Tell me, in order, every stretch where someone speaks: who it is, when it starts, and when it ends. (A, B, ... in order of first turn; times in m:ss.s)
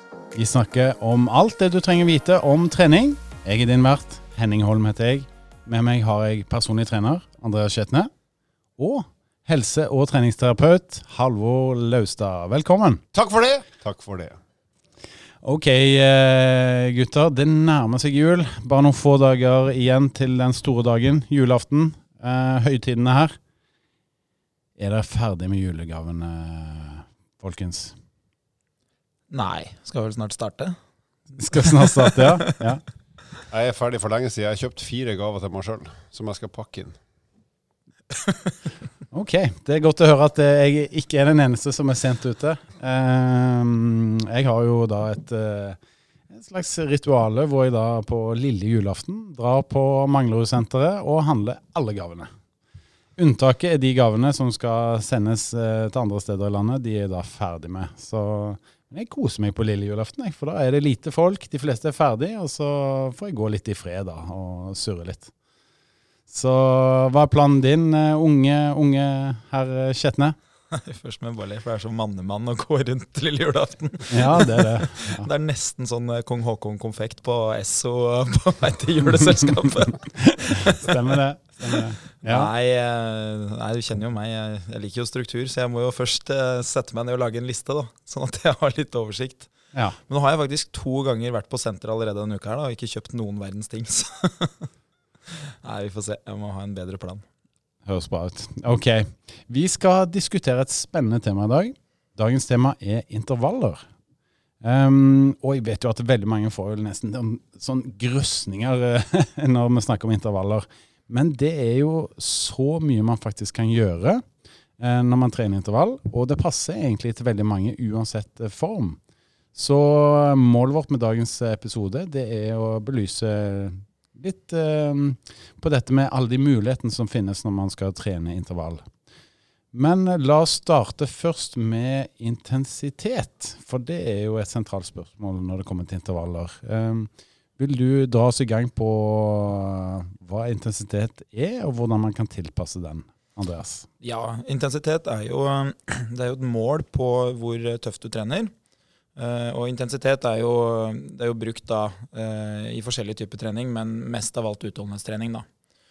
0:00.3-0:08.1 A
0:08.8-0:13.0 A
0:13.1-0:14.4 B
0:15.4-0:23.4 A
0:24.8-0:28.0 A
0:29.3-0:30.8 C
0:31.4-0:32.8 A
0:31.6-0:32.6 C
0:33.5-0:37.0 B
0:39.1-0:45.8 A
0:46.3-0:52.3 A
0:53.2-1:05.3 A
1:06.3-1:10.4 A
1:10.7-1:21.1 C
1:14.1-1:15.3 A
1:20.6-1:22.5 A
1:21.7-1:29.5 C
1:30.1-1:34.7 C
1:35.3-1:37.2 C
1:37.8-1:43.8 A
1:44.6-1:54.2 A
1:54.8-1:59.0 A
1:59.5-2:08.8 A
2:09.7-2:23.9 A
2:24.0-2:28.5 C
2:29.2-2:35.4 C